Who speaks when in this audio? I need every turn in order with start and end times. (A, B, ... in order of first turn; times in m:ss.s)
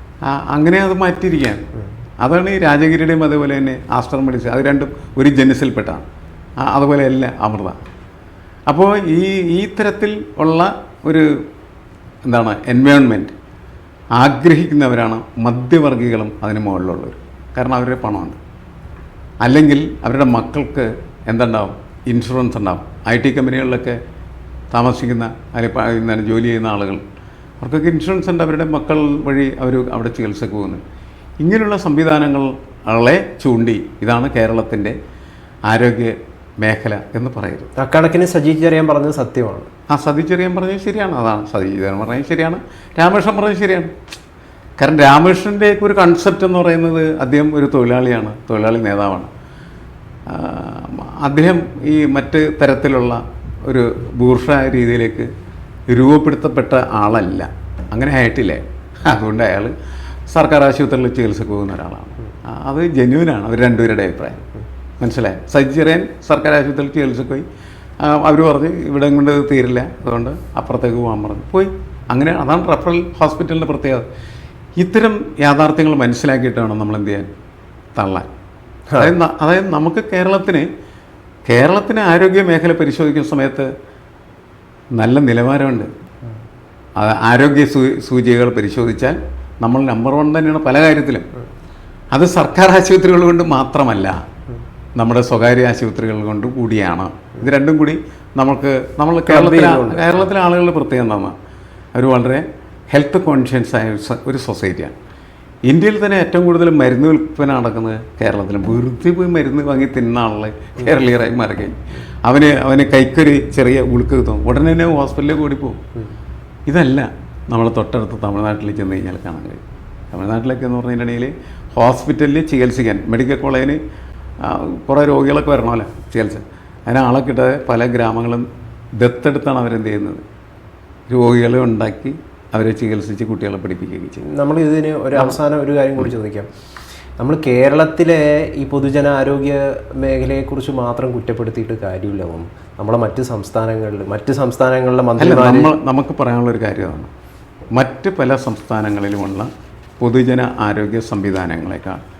0:00.2-0:01.6 A
0:02.2-0:06.0 A
0:06.6-0:07.7 A
0:08.7-0:11.3 A
0:12.2-0:13.3 A
0:14.2-0:18.4 A
0:19.4-0:24.0 A
0:24.7-0:27.0 A
0:27.6-0:30.8 A
0:31.4-0:35.0 A
0:35.7-0:37.7 A
0:37.8-0:39.7 B
0:39.9-0:43.9 A
0:44.8-0:49.3 A
0:50.3-0:55.3 A
0:55.9-0:59.7 A
1:00.3-1:04.4 A
1:05.0-1:07.4 A
1:08.0-1:14.0 A
1:14.8-1:17.3 A
1:18.0-1:18.3 A
1:19.0-1:20.6 A
1:21.4-1:23.7 A
1:25.0-1:25.9 A
1:27.0-1:31.3 A
1:32.1-1:34.2 A
1:35.0-1:41.3 A
1:39.3-1:40.3 B
1:41.9-1:45.0 A
1:45.7-1:55.8 A
1:56.7-1:59.6 A
2:00.1-2:03.8 A
2:04.4-2:08.4 A
2:09.0-2:10.2 A
2:11.1-2:14.2 A
2:14.2-2:16.5 B
2:17.2-2:25.7 B
2:25.2-2:27.1 A
2:27.7-2:29.5 A
2:30.0-2:32.0 A